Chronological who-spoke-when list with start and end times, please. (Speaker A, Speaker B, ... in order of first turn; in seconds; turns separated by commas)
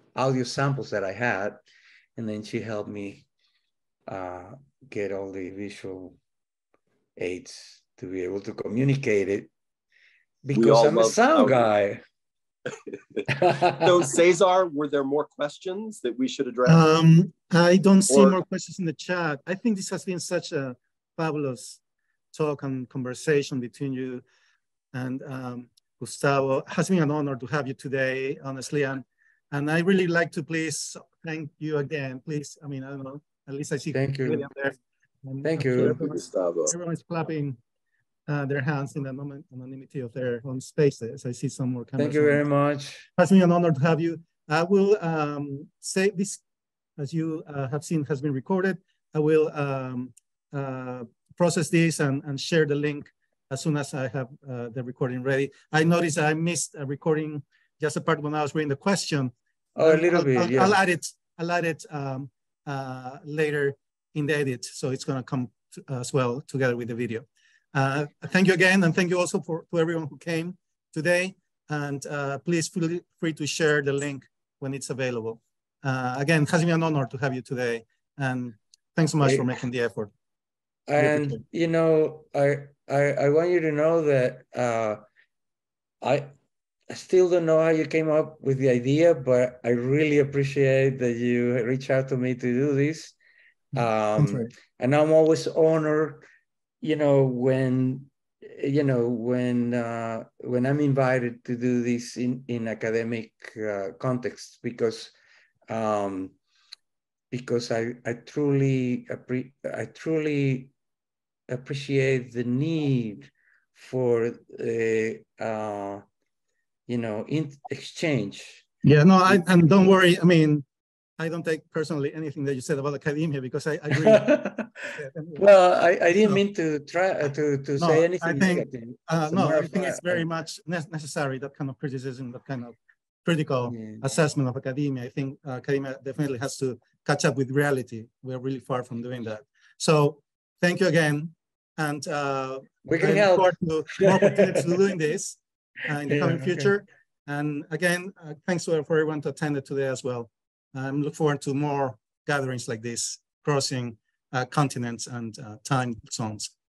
Speaker A: 0.2-1.6, Speaker A: 2.2-3.3, Speaker A: 4.1-6.2, Speaker A: 7.2-9.5, Speaker A: 10.4-12.0, Speaker B: 10.5-11.7, Speaker A: 13.3-13.9, Speaker B: 13.8-16.9, Speaker C: 16.7-21.8, Speaker B: 18.1-18.4, Speaker C: 22.3-24.2, Speaker C: 24.9-37.6, Speaker A: 33.9-34.5, Speaker A: 35.4-36.0, Speaker B: 35.8-36.7, Speaker C: 38.3-42.4, Speaker A: 42.0-43.1, Speaker C: 43.2-46.4, Speaker C: 47.0-80.1, Speaker A: 59.8-60.8, Speaker A: 80.9-85.0, Speaker C: 81.0-81.4, Speaker A: 86.0-86.3, Speaker A: 86.9-93.1, Speaker A: 93.8-96.3, Speaker C: 94.2-94.5, Speaker A: 96.8-105.1, Speaker A: 105.7-106.3, Speaker A: 107.3-110.7, Speaker A: 111.5-116.0, Speaker A: 116.9-118.7, Speaker C: 118.8-120.7, Speaker A: 119.3-119.6, Speaker C: 121.2-124.4, Speaker A: 124.0-130.3, Speaker C: 125.0-125.5, Speaker C: 127.8-156.5, Speaker A: 133.7-134.1, Speaker A: 142.9-144.6, Speaker A: 146.1-146.7